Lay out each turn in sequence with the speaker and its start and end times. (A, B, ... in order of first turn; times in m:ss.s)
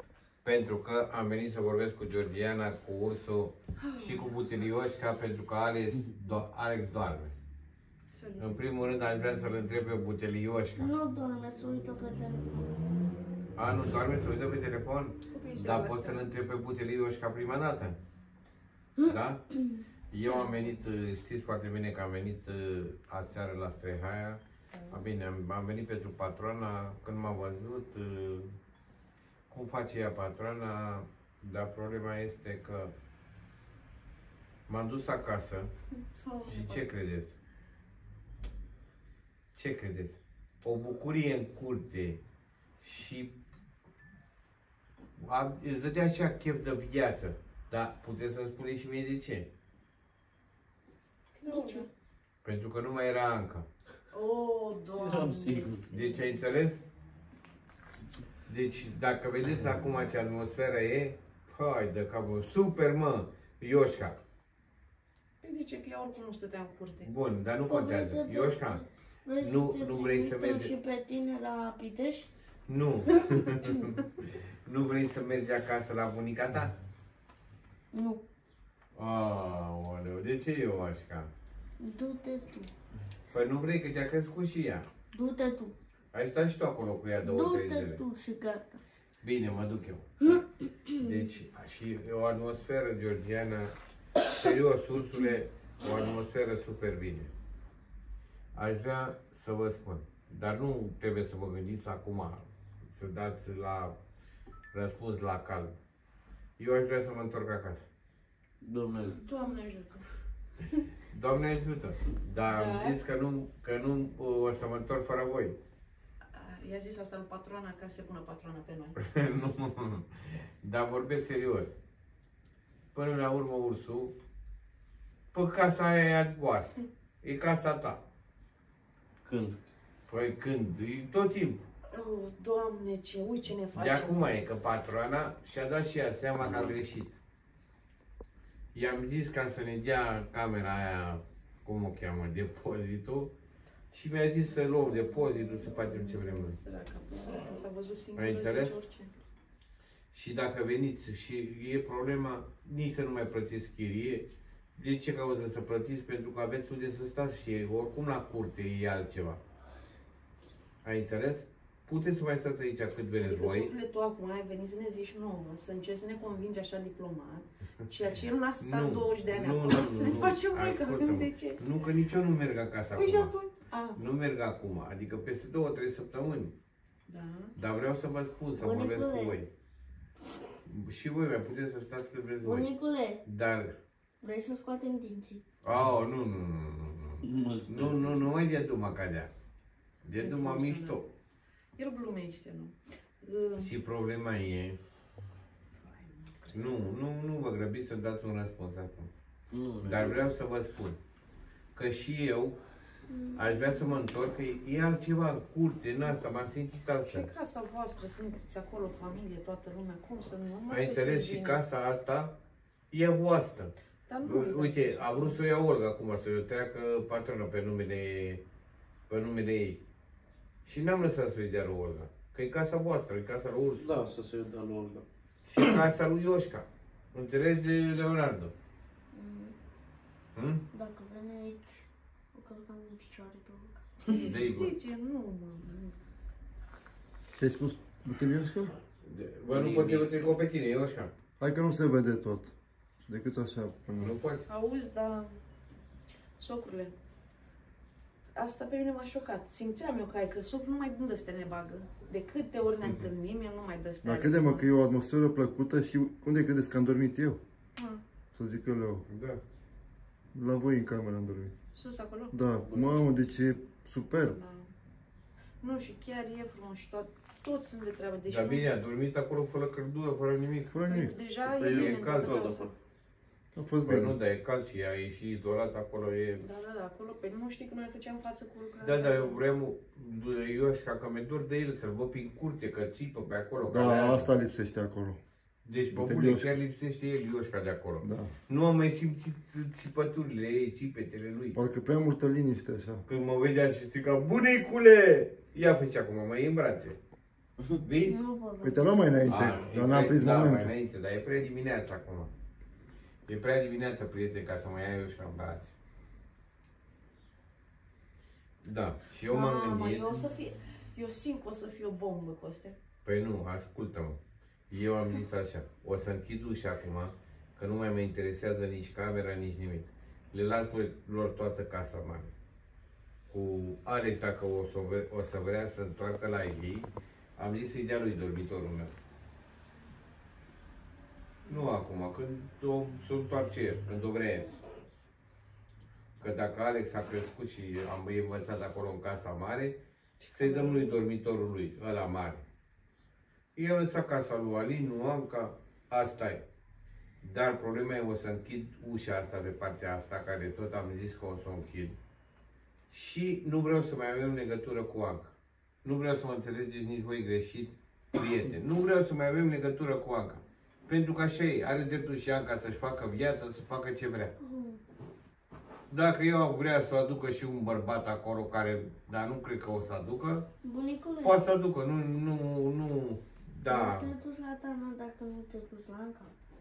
0:00.4-0:07.3 A
0:08.1-0:08.6 B
0:08.4-0:10.9 A
0:10.8-0:12.7 C
0:13.6-0:18.0 A
0:15.3-0:16.3 B
0:19.0-0:19.5 A
0:20.1-0:28.6 A
0:20.2-0:20.5 B
0:24.7-0:25.0 B
0:29.5-0:32.9 A
0:34.7-0:35.7 A
0:36.2-0:36.9 B
0:36.5-0:37.3 A
0:39.5-0:42.2 A
0:42.8-0:43.4 A
0:45.2-0:49.5 A
0:51.4-0:51.9 B
0:51.5-0:51.9 C
0:52.4-0:53.7 A
0:54.1-0:55.8 C
0:54.9-0:55.9 D
0:55.9-0:56.8 A
0:58.5-1:04.2 A
1:05.4-1:07.1 B
1:07.0-1:08.8 A
1:07.7-1:12.3 C
1:09.4-1:10.7 A
1:12.7-1:16.7 A
1:17.9-1:18.2 C
1:19.0-1:21.3 A
1:21.8-1:22.7 C
1:23.3-1:24.9 A
1:25.1-1:25.8 C
1:26.1-1:28.0 A
1:27.2-1:28.8 C
1:29.2-1:30.4 A
1:30.2-1:31.2 C
1:31.0-1:33.7 A
1:34.3-1:37.3 A
1:38.5-1:44.0 A
1:44.7-1:45.8 A
1:46.6-1:47.9 A
1:48.6-1:49.2 D
1:49.2-1:50.0 B
1:51.1-1:55.6 A
1:52.5-1:53.0 B
1:56.3-1:59.0 B
1:59.0-2:01.7 A
2:02.9-2:04.1 A
2:05.3-2:08.0 A
2:09.2-2:09.6 D
2:10.1-2:11.6 A
2:11.9-2:14.4 B
2:13.7-2:17.2 A
2:18.7-2:23.3 A
2:23.9-2:26.6 A
2:24.5-2:29.1 B
2:28.2-2:28.8 A
2:30.1-2:39.4 A
2:40.8-2:43.7 A
2:43.2-2:51.6 B
2:48.6-2:53.3 A
2:52.9-2:54.0 B
2:54.0-2:56.6 A
2:57.1-2:57.6 B
2:57.6-2:59.5 A
2:58.6-2:59.4 C
3:00.7-3:02.7 A
3:02.4-3:03.2 C
3:03.2-3:03.8 A
3:04.2-3:05.4 C
3:05.6-3:09.3 A
3:07.2-3:08.3 D
3:10.0-3:11.1 A
3:10.2-3:11.0 B
3:11.8-3:13.7 B
3:13.6-3:14.8 A
3:15.8-3:16.7 B
3:16.5-3:19.1 A
3:19.5-3:20.3 D
3:19.8-3:21.0 A
3:21.7-3:22.6 A
3:23.1-3:23.7 C
3:23.4-3:27.3 A
3:27.0-3:31.6 B
3:30.7-3:32.4 A
3:32.9-3:38.4 A
3:34.1-3:35.4 B
3:39.1-3:39.8 A
3:40.6-3:43.9 A
3:43.8-3:45.0 D
3:45.4-3:48.5 A
3:49.1-3:49.6 C
3:50.4-3:50.6 A
3:50.7-3:53.8 C
3:54.0-3:56.0 B
3:54.1-3:54.8 A
3:57.3-3:58.7 E
3:59.0-4:01.1 A
3:59.5-4:00.4 D
4:01.4-4:02.5 E
4:03.1-4:04.2 E
4:04.0-4:04.4 A
4:04.5-4:05.4 B
4:06.4-4:06.9 B
4:08.4-4:14.7 B
4:14.0-4:17.4 E
4:17.8-4:18.0 B
4:18.3-4:19.0 E
4:19.1-4:19.4 A
4:20.3-4:21.6 E
4:21.8-4:23.0 B
4:22.3-4:24.4 E
4:24.2-4:24.7 B
4:25.6-4:28.7 B
4:28.3-4:30.8 A
4:30.7-4:31.2 E
4:30.8-4:32.7 B
4:31.6-4:32.8 D
4:31.6-4:32.4 A
4:33.5-4:34.2 E
4:33.9-4:36.5 A
4:36.4-4:39.4 B
4:38.8-4:44.3 A
4:43.6-4:45.2 E
4:45.6-4:51.6 A
4:45.9-4:46.5 E
4:48.0-4:48.3 E
4:51.5-4:53.0 E
4:53.1-4:57.0 A
4:57.8-4:58.2 A
4:58.0-4:58.9 C
4:58.6-5:00.7 E
4:59.3-5:02.3 A
5:03.2-5:05.7 A
5:08.6-5:10.1 A
5:09.3-5:12.8 B
5:13.0-5:22.3 A
5:23.3-5:28.9 A
5:31.5-5:31.7 B
5:31.5-5:34.6 A
5:36.2-5:42.4 A
5:40.2-5:41.0 B
5:43.6-5:46.4 A
5:47.2-5:52.0 A
5:52.9-6:04.3 A
6:04.4-6:04.8 C
6:05.9-6:10.4 A
6:10.6-6:11.4 C
6:11.2-6:14.1 A
6:13.7-6:16.3 C